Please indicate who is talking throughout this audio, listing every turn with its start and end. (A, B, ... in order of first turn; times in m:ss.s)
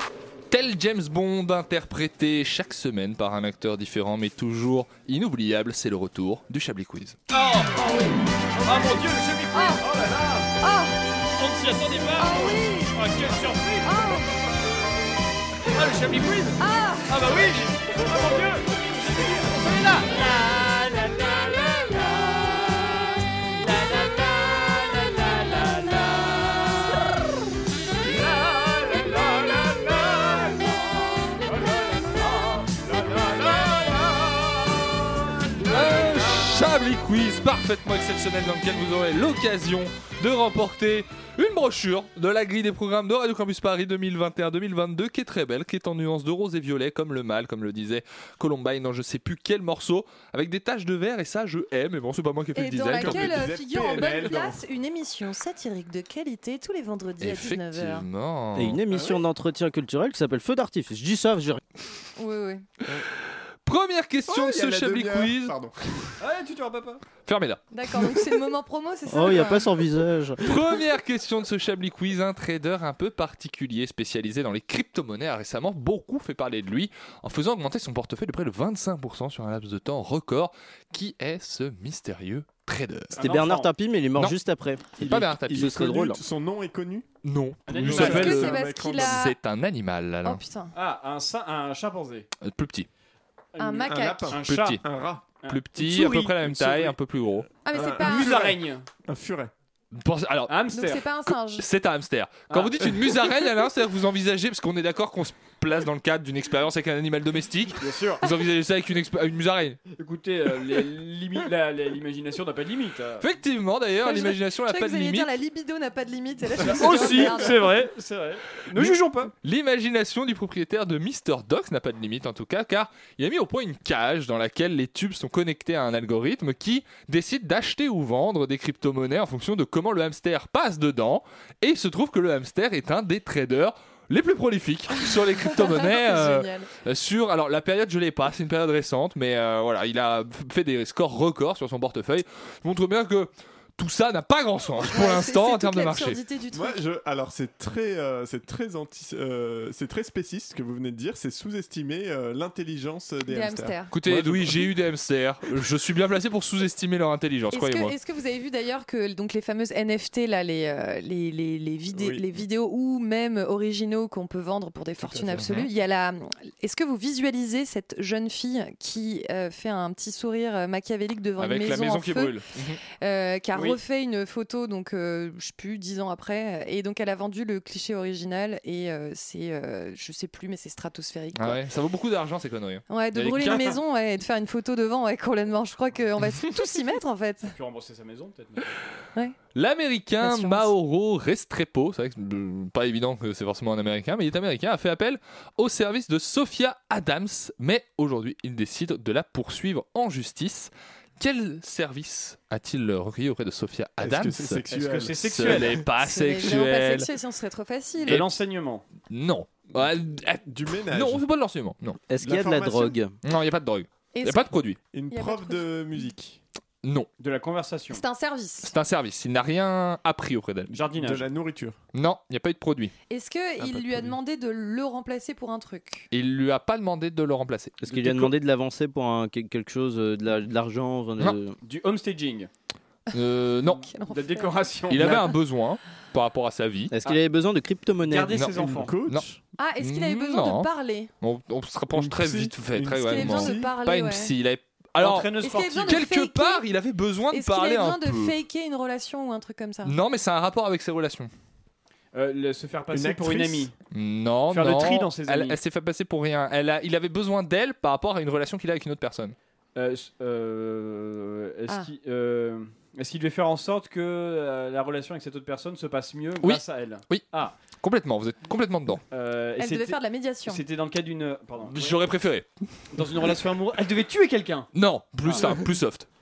0:00.5-0:07.2 A
0:07.3-0:07.9 B
0:07.8-0:08.2 C
0:08.6-0:10.5 B
0:09.5-0:09.8 C
0:10.6-0:11.0 C
0:11.4-0:14.0 B
0:12.2-0:13.0 C
0:13.8-0:14.3 C
0:15.7-0:26.9 B
0:16.6-0:17.1 C
0:28.9-0:30.4 B
0:31.4-0:33.9 B
0:35.6-0:53.5 A
0:52.6-0:58.0 C
0:53.0-0:54.6 D
0:57.2-0:58.8 A
0:58.5-1:01.6 E
0:58.9-0:59.2 D
1:02.2-1:02.7 C
1:03.6-1:05.5 A
1:04.3-1:06.1 D
1:06.2-1:07.0 B
1:07.2-1:07.6 A
1:07.7-1:09.7 C
1:09.1-1:10.5 E
1:10.4-1:23.2 A
1:23.2-1:23.7 B
1:23.2-1:26.2 E
1:25.0-1:27.0 D
1:25.0-1:25.8 A
1:27.2-1:30.4 A
1:27.7-1:28.6 B
1:27.7-1:29.3 D
1:27.9-1:29.4 C
1:30.2-1:30.7 C
1:30.7-1:32.3 B
1:32.4-1:32.9 A
1:33.5-1:34.8 B
1:33.6-1:34.4 C
1:33.9-1:35.2 D
1:34.4-1:34.8 A
1:35.4-1:36.4 B
1:35.5-1:37.5 A
1:36.4-1:36.9 D
1:37.6-1:38.4 C
1:37.7-1:39.5 D
1:38.0-1:38.9 B
1:39.9-1:40.6 A
1:40.5-1:41.0 B
1:40.7-1:41.7 C
1:41.2-1:49.8 A
1:42.5-1:43.0 B
1:47.8-1:48.2 B
1:50.0-1:53.3 B
1:53.2-1:55.3 A
1:54.0-1:57.7 C
1:56.6-1:59.3 B
1:58.7-2:26.2 A
2:15.4-2:16.7 C
2:24.8-2:26.8 C
2:26.5-2:34.7 D
2:33.3-2:33.9 C
2:33.9-2:37.9 A
2:37.5-2:52.4 C
2:41.9-2:42.2 D
2:45.0-2:45.5 D
2:45.4-2:45.7 A
2:51.4-2:52.8 A
2:53.0-3:01.6 C
2:53.5-2:53.8 B
3:01.4-3:03.8 A
3:02.9-3:07.5 C
3:07.5-3:08.6 B
3:09.5-3:24.6 A
3:10.2-3:10.7 C
3:24.0-3:25.8 D
3:24.7-3:25.8 B
3:25.2-3:27.1 A
3:26.0-3:28.2 C
3:28.0-3:28.8 B
3:29.1-3:32.0 A
3:30.4-3:31.2 D
3:32.1-3:33.1 E
3:32.2-3:33.0 D
3:33.2-3:34.8 A
3:34.1-3:34.5 C
3:34.9-3:36.4 D
3:35.1-3:35.6 C
3:36.8-3:37.1 A
3:37.2-3:38.0 B
3:37.9-3:38.7 C
3:38.6-3:40.7 A
3:40.7-3:41.2 B
3:40.9-3:41.8 D
3:41.9-3:42.9 A
3:43.1-3:46.1 C
3:43.6-3:44.2 D
3:46.1-3:47.8 A
3:47.8-3:51.5 E
3:51.6-3:52.5 B
3:53.1-3:53.8 A
3:53.7-3:55.1 C
3:54.1-3:55.3 B
3:54.9-3:56.9 A
3:56.9-3:58.4 E
3:58.1-3:58.9 B
3:58.5-3:59.4 D
3:59.6-4:01.1 C
3:59.8-4:00.7 A
4:01.2-4:08.3 A
4:01.9-4:03.7 D
4:02.9-4:04.3 C
4:05.0-4:06.0 B
4:05.4-4:06.6 C
4:07.3-4:10.0 C
4:09.8-4:11.3 A
4:12.1-4:13.7 B
4:12.9-4:13.7 D
4:13.9-4:19.4 A
4:14.5-4:15.6 B
4:19.8-4:27.5 B
4:26.4-4:29.0 A
4:29.1-4:32.0 B
4:29.6-4:30.6 C
4:31.7-4:32.5 A
4:32.9-4:34.7 B
4:34.7-4:36.0 A
4:35.2-4:35.6 B